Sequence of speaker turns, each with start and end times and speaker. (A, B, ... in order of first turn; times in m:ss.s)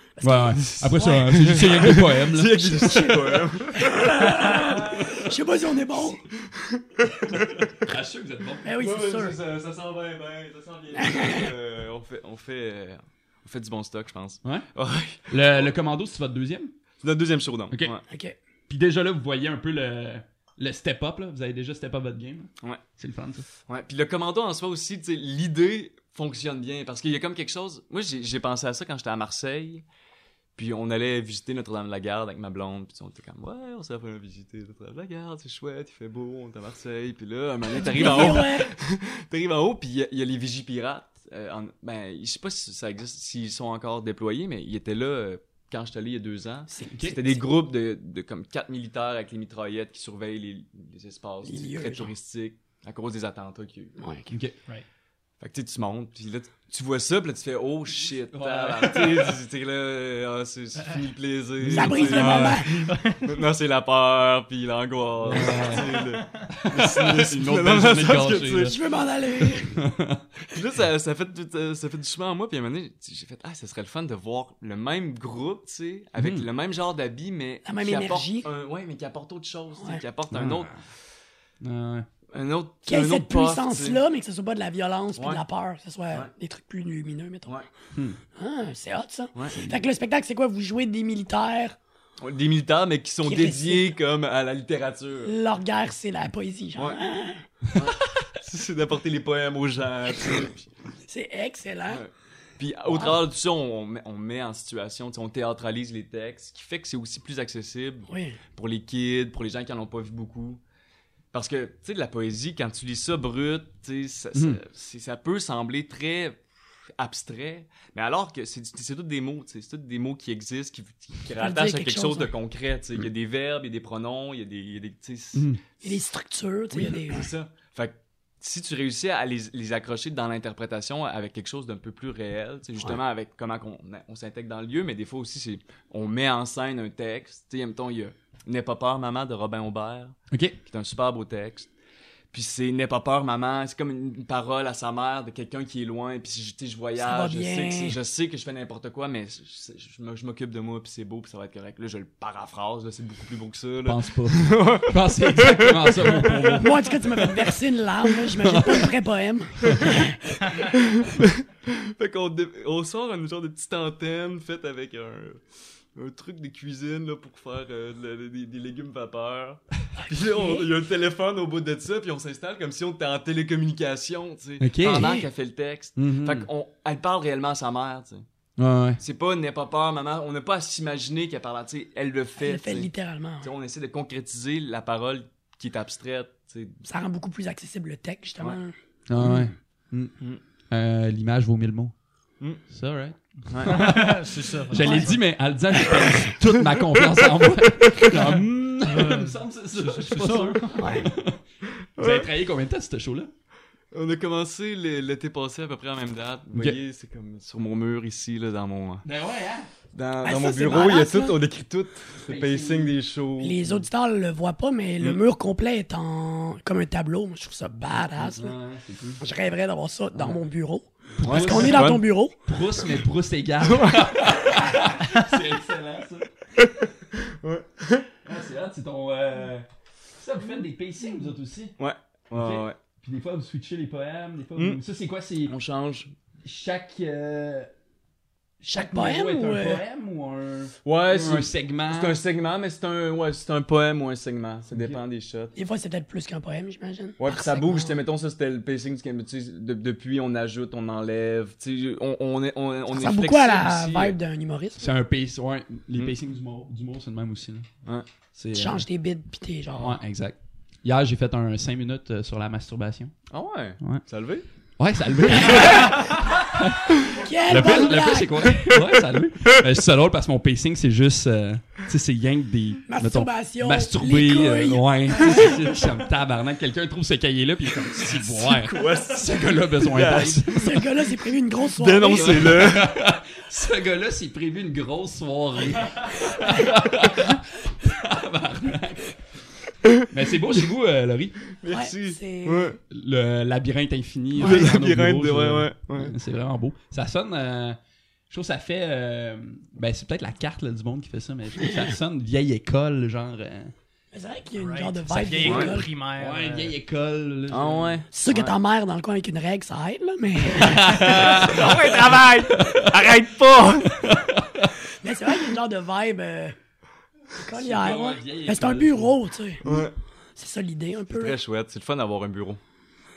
0:00.2-0:01.5 A
0:00.2-0:02.9 B
0:00.5-0:04.8 C
0:02.5-0:06.2 A
0:06.3-0:07.9 C
0:07.6-0:08.7 B
0:08.6-0:09.4 A
0:08.8-0:15.7 C
0:11.0-0:11.5 A
0:15.3-0:16.7 B
0:17.0-0:18.0 C
0:18.1-0:18.4 A
0:18.7-0:23.5 B
0:23.7-0:29.8 C
0:30.6-0:54.0 C
0:37.7-0:38.7 A
0:46.7-0:47.4 A
0:46.9-0:47.2 B
0:51.4-0:52.1 A
0:54.0-0:54.3 A
0:54.3-0:54.6 B
0:55.4-1:08.8 C
0:58.3-0:59.4 B
1:01.6-1:02.6 B
1:01.7-1:02.7 A
1:02.2-1:03.4 D
1:05.2-1:05.9 B
1:05.5-1:06.4 D
1:06.5-1:08.8 B
1:08.6-1:09.8 A
1:09.6-1:10.2 B
1:10.5-1:20.7 C
1:16.2-1:16.5 B
1:17.7-1:18.5 A
1:20.3-1:20.8 B
1:21.6-1:22.1 B
1:22.3-1:24.0 C
1:22.9-1:27.5 A
1:25.2-1:25.4 C
1:28.4-1:31.8 A
1:32.2-1:35.4 C
1:33.2-1:34.0 A
1:35.2-1:37.4 A
1:37.8-1:40.7 C
1:41.1-1:42.0 A
1:41.9-1:50.6 C
1:42.9-1:43.2 A
1:48.1-1:48.4 A
1:51.3-1:56.4 C
1:54.4-1:54.6 B
1:57.0-2:05.6 C
2:01.4-2:02.3 A
2:05.4-2:05.6 B
2:05.8-2:07.3 A
2:06.7-2:21.7 C
2:20.3-2:20.6 B
2:22.3-2:36.6 C
2:27.0-2:28.0 A
2:33.9-2:37.5 B
2:36.6-2:40.5 A
2:38.4-2:38.9 B
2:40.6-2:45.4 C
2:46.0-2:58.2 C
2:50.0-2:50.7 A
2:54.6-2:55.1 B
2:54.8-2:55.3 A
2:56.0-2:56.5 B
2:58.6-2:59.0 B
2:59.0-3:02.9 C
3:02.4-3:03.5 A
3:03.4-3:06.8 C
3:06.8-3:08.7 A
3:09.1-3:10.1 B
3:10.7-3:11.9 B
3:12.7-3:21.4 B
3:13.5-3:14.0 C
3:13.6-3:15.2 D
3:14.8-3:15.2 A
3:18.8-3:20.9 D
3:20.8-3:21.1 A
3:21.8-3:22.3 C
3:22.0-3:23.3 B
3:23.9-3:29.0 C
3:29.0-3:29.7 B
3:29.9-3:33.7 C
3:30.2-3:31.4 A
3:32.2-3:32.9 B
3:33.4-3:38.5 A
3:38.2-3:39.2 B
3:39.2-3:42.4 A
3:41.2-3:46.3 B
3:41.2-3:42.0 C
3:43.6-3:44.4 C
3:46.6-3:48.1 C
3:48.2-3:51.8 B
3:51.8-3:52.8 C
3:52.4-3:55.5 B
3:55.5-3:56.1 C
3:56.4-3:57.7 B
3:58.6-4:02.2 B
3:58.7-3:59.8 A
4:00.8-4:05.5 C
4:04.7-4:05.0 B
4:05.6-4:08.0 A
4:07.2-4:14.2 C
4:12.9-4:14.8 A
4:14.8-4:17.7 B
4:18.4-4:18.8 B
4:18.5-4:20.0 A
4:19.8-4:23.1 B
4:23.3-4:24.4 C
4:24.8-4:40.8 B
4:25.4-4:26.3 C
4:27.1-4:28.8 A
4:32.9-4:35.6 A
4:38.0-4:40.9 C
4:40.5-4:42.6 A
4:41.8-4:42.9 C
4:42.1-4:49.2 B
4:50.1-4:51.4 B
4:51.5-4:52.8 C
4:51.7-4:52.8 A
4:52.9-4:57.8 B
4:54.4-4:56.1 C
4:58.3-5:03.7 B
5:04.1-5:05.9 A
5:04.6-5:06.7 D
5:05.4-5:05.7 C
5:06.2-5:08.0 B
5:07.5-5:08.5 C
5:08.1-5:11.5 A
5:10.4-5:12.0 B
5:11.0-5:14.1 C
5:12.5-5:13.0 B
5:13.9-5:14.7 B
5:14.9-5:16.6 A
5:17.4-5:19.6 A
5:17.5-5:19.9 B
5:19.6-5:19.9 C
5:20.4-5:21.4 A
5:21.1-5:22.6 C